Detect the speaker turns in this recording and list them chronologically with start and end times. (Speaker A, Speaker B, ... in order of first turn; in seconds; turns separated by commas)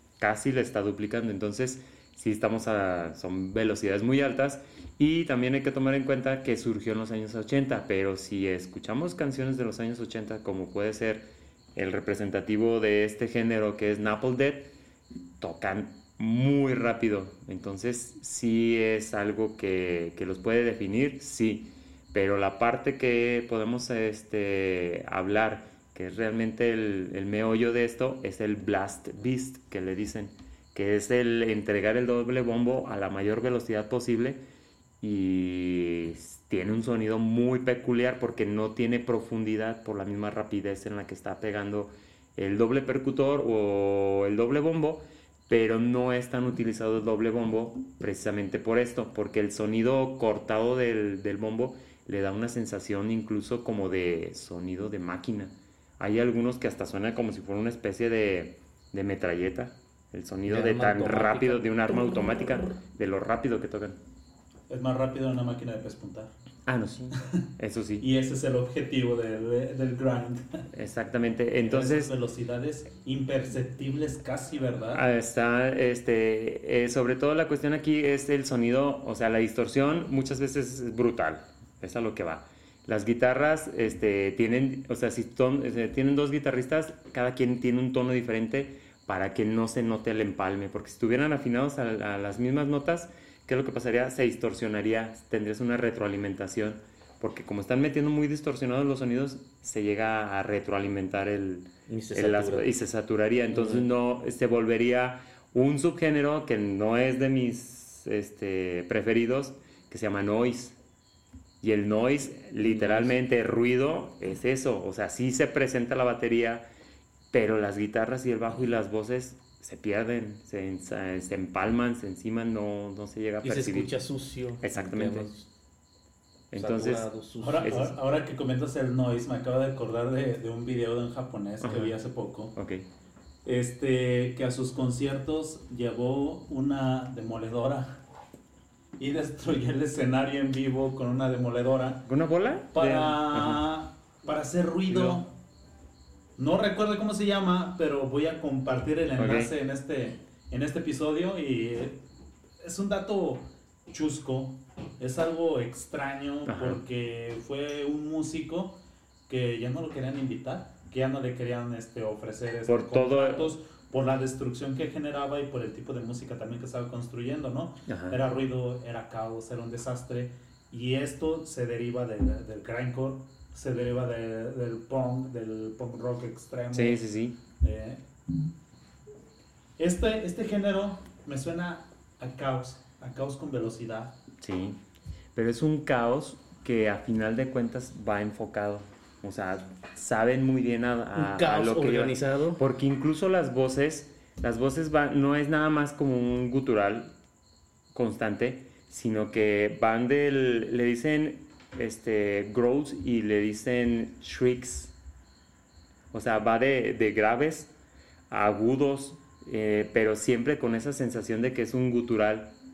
Speaker A: 0.2-14.7, Speaker A: 15.4-34.4, Speaker A: 35.0-64.0, Speaker B: 60.5-62.7, Speaker C: 64.7-66.3, Speaker A: 66.7-68.0, Speaker C: 68.0-70.6, Speaker A: 70.7-72.1, Speaker C: 71.6-75.0, Speaker A: 74.9-110.8, Speaker B: 101.9-102.7, Speaker B: 103.5-103.9, Speaker A: 111.6-116.6, Speaker B: 112.6-113.2, Speaker A: 117.3-123.9, Speaker B: 123.4-125.5, Speaker A: 124.6-125.3, Speaker A: 126.5-127.9, Speaker B: 126.5-127.9, Speaker C: 127.4-132.5, Speaker A: 131.6-131.9, Speaker A: 132.5-132.8, Speaker C: 133.4-138.0, Speaker C: 139.0-142.0, Speaker A: 142.1-143.6, Speaker C: 142.7-145.3, Speaker A: 144.9-145.2, Speaker C: 146.4-152.0, Speaker A: 149.2-149.5, Speaker C: 152.6-158.8, Speaker A: 156.5-156.8, Speaker C: 159.3-177.0, Speaker A: 162.7-163.5, Speaker A: 167.9-168.2, Speaker A: 176.7-177.4, Speaker C: 177.6-178.0, Speaker C: 179.8-184.1, Speaker A: 184.4-184.8, Speaker A: 185.3-197.1, Speaker B: 191.1-192.6, Speaker A: 197.9-204.9, Speaker A: 206.1-207.7, Speaker A: 208.3-212.5